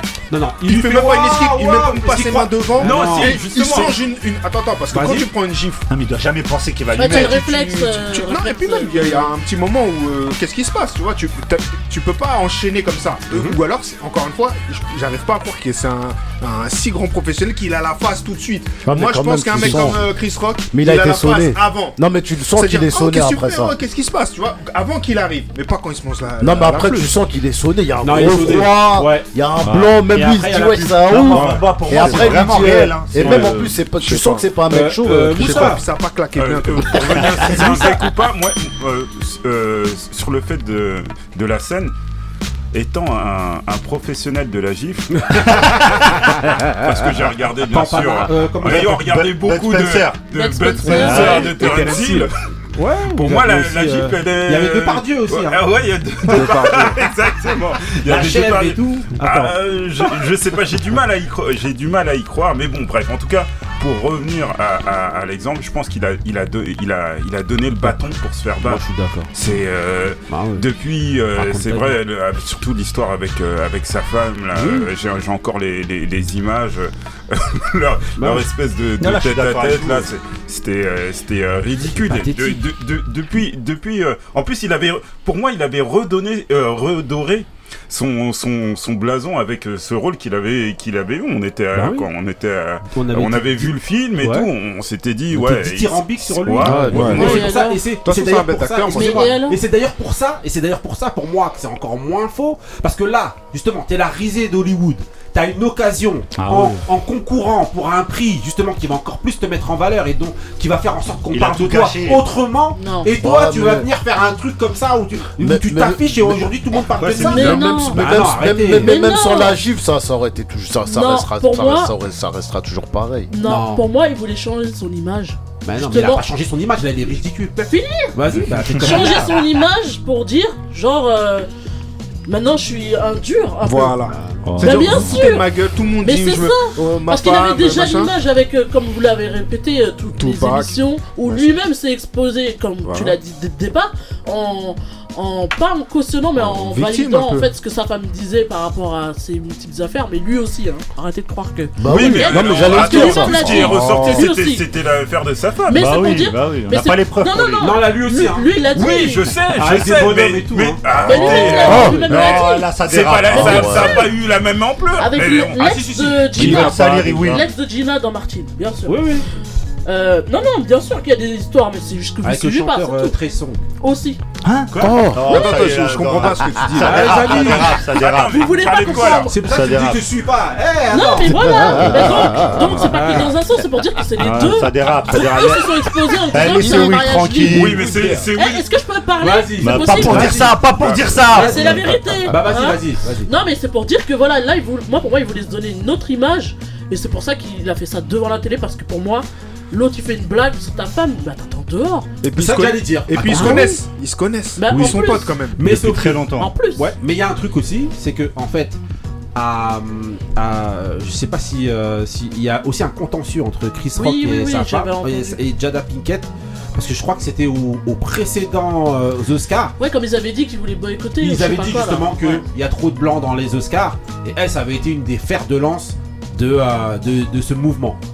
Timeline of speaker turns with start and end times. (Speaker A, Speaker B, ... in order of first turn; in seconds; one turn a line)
Speaker A: 0.3-4.0
Speaker B: 0.7-5.8
Speaker C: 2.8-3.9
Speaker A: 4.9-5.3
Speaker D: 5.9-8.0
Speaker E: 6.9-9.3
Speaker B: 7.9-22.0
Speaker A: 13.3-13.6
Speaker F: 18.9-20.1
Speaker A: 19.6-19.9
Speaker F: 20.7-23.8
Speaker B: 22.5-27.2
Speaker F: 26.4-35.7
Speaker A: 28.0-29.3
Speaker D: 29.6-29.9
Speaker A: 30.1-31.4
Speaker D: 31.1-33.7
Speaker B: 31.3-32.5
Speaker B: 33.2-34.5
Speaker A: 33.2-33.6
Speaker A: 34.7-35.8
Speaker B: 35.3-38.0
Speaker C: 36.3-41.9
Speaker C: 42.7-52.3
Speaker A: 45.3-46.7
Speaker A: 47.7-49.0
Speaker D: 48.6-50.3
Speaker E: 50.3-51.7
Speaker D: 50.9-52.0
Speaker A: 50.9-52.2
Speaker A: 52.8-55.6
Speaker C: 53.1-97.5
Speaker A: 56.3-56.8
Speaker B: 56.3-57.0
Speaker A: 58.0-59.6
Speaker A: 68.6-69.3
Speaker A: 70.3-70.7
Speaker A: 71.3-72.0
Speaker A: 74.5-74.9
Speaker A: 78.2-78.5
Speaker D: 79.0-80.1
Speaker A: 81.8-82.6
Speaker A: 91.7-92.1
Speaker A: 92.9-94.5
Speaker A: 95.3-119.0
Speaker F: 96.6-97.1
Speaker B: 96.9-99.4
Speaker E: 97.2-97.9
Speaker E: 98.9-99.6
Speaker D: 106.3-106.8
Speaker D: 111.3-112.2
Speaker E: 112.7-113.1
Speaker F: 113.2-113.9
Speaker F: 115.4-116.6
Speaker D: 117.0-117.8
Speaker E: 117.1-118.0
Speaker F: 117.3-123.3
Speaker E: 118.7-119.6
Speaker E: 120.8-121.9
Speaker E: 123.3-126.3
Speaker A: 123.4-123.8
Speaker A: 125.6-129.4
Speaker E: 127.6-128.2
Speaker E: 128.8-131.5
Speaker E: 132.3-134.0
Speaker B: 133.6-138.1
Speaker A: 134.1-135.1
Speaker D: 134.5-135.2
Speaker E: 134.6-154.7
Speaker B: 140.1-141.6
Speaker B: 142.8-143.2
Speaker B: 146.4-147.5
Speaker F: 151.8-153.8
Speaker C: 151.8-155.9
Speaker B: 153.8-154.2
Speaker E: 155.7-159.4
Speaker D: 155.7-157.7
Speaker A: 157.6-162.1
Speaker C: 158.7-166.0
Speaker E: 161.0-162.7
Speaker D: 161.1-164.1
Speaker F: 161.6-162.0
Speaker F: 163.3-164.1
Speaker E: 165.0-169.2
Speaker A: 165.5-166.4
Speaker D: 166.3-167.4
Speaker B: 166.4-167.4
Speaker A: 168.8-169.2
Speaker E: 169.8-173.2
Speaker A: 172.2-173.6
Speaker E: 173.8-174.2
Speaker D: 174.4-178.6
Speaker C: 174.7-175.1
Speaker F: 174.8-175.3
Speaker B: 175.2-177.2
Speaker A: 176.8-177.8
Speaker C: 177.4-179.3
Speaker E: 178.2-179.4
Speaker A: 178.8-183.3
Speaker D: 179.4-180.0
Speaker E: 180.9-187.8
Speaker F: 181.3-182.6
Speaker D: 184.2-187.8
Speaker F: 186.6-186.9
Speaker C: 187.5-188.7
Speaker A: 187.8-188.2
Speaker B: 187.9-188.2
Speaker E: 188.3-190.6
Speaker A: 189.2-190.5
Speaker D: 189.6-191.8
Speaker C: 190.1-191.2
Speaker A: 191.3-193.3
Speaker E: 191.3-202.1
Speaker B: 202.2-205.6
Speaker A: 202.3-203.8
Speaker E: 203.2-203.8
Speaker E: 204.6-205.4
Speaker A: 204.7-208.8
Speaker D: 205.6-206.5
Speaker E: 206.3-206.9
Speaker A: 209.3-219.8
Speaker E: 213.9-215.4
Speaker E: 219.8-222.4
Speaker A: 221.2-228.0